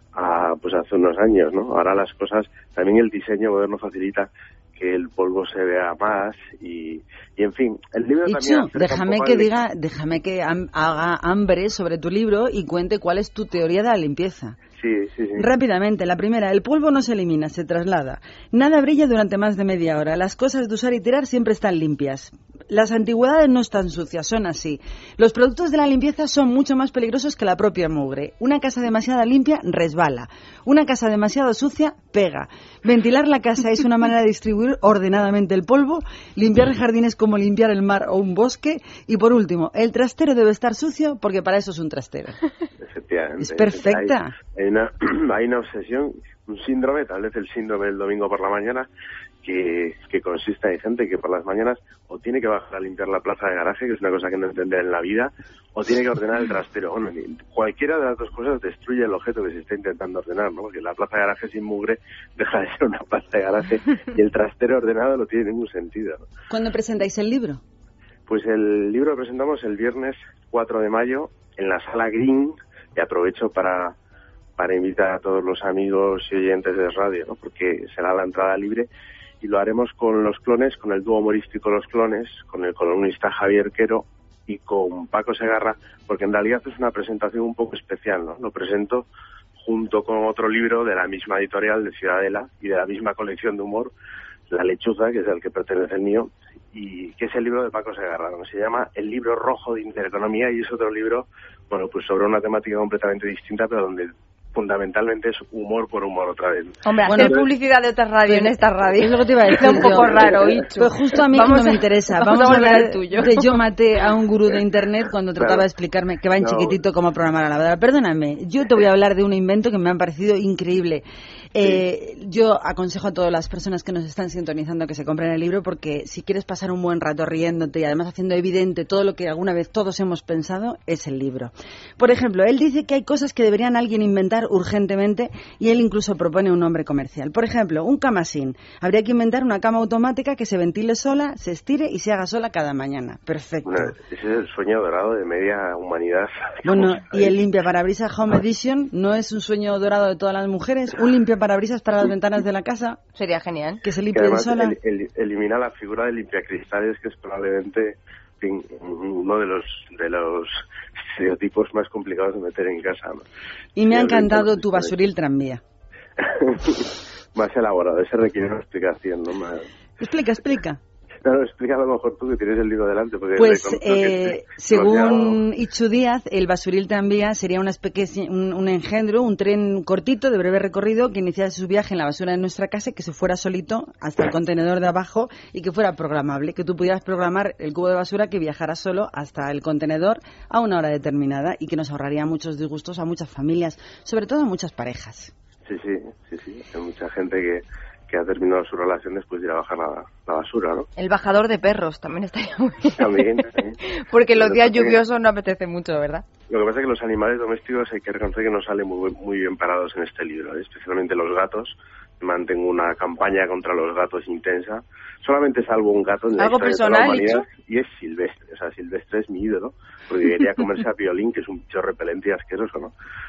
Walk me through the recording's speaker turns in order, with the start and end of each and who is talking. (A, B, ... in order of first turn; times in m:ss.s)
0:00.2-0:09.5 A
0:08.3-0:14.6 B
0:14.7-0:15.4 A
0:15.4-0:42.4 B
0:42.8-0:48.9 A
0:43.4-0:44.3 B
0:49.4-1:06.2 A
1:06.5-1:07.6 B
1:08.3-1:13.9 A
1:14.6-1:18.9 A
1:19.4-1:29.1 A
1:29.6-1:33.9 A
1:34.5-1:47.4 A
1:46.8-1:53.6 C
1:47.0-1:47.5 B
1:48.2-2:23.9 B
1:49.9-1:50.5 A
1:55.4-1:55.7 A
1:56.4-1:56.8 A
2:23.7-2:27.3 A
2:26.6-2:33.0 B
2:33.2-2:33.8 C
2:33.8-2:34.7 B
2:34.1-2:40.6 A
2:41.2-2:43.2 A
2:43.8-2:45.6 B
2:43.8-2:45.0 A
2:46.2-2:49.6 A
2:50.0-2:50.8 B
2:51.2-2:55.4 A
2:53.4-3:15.3 B
3:15.7-3:20.9 A
3:21.0-3:22.9 C
3:23.0-3:25.0 A
3:23.9-3:26.2 C
3:26.5-3:42.9 A
3:36.4-3:37.4 C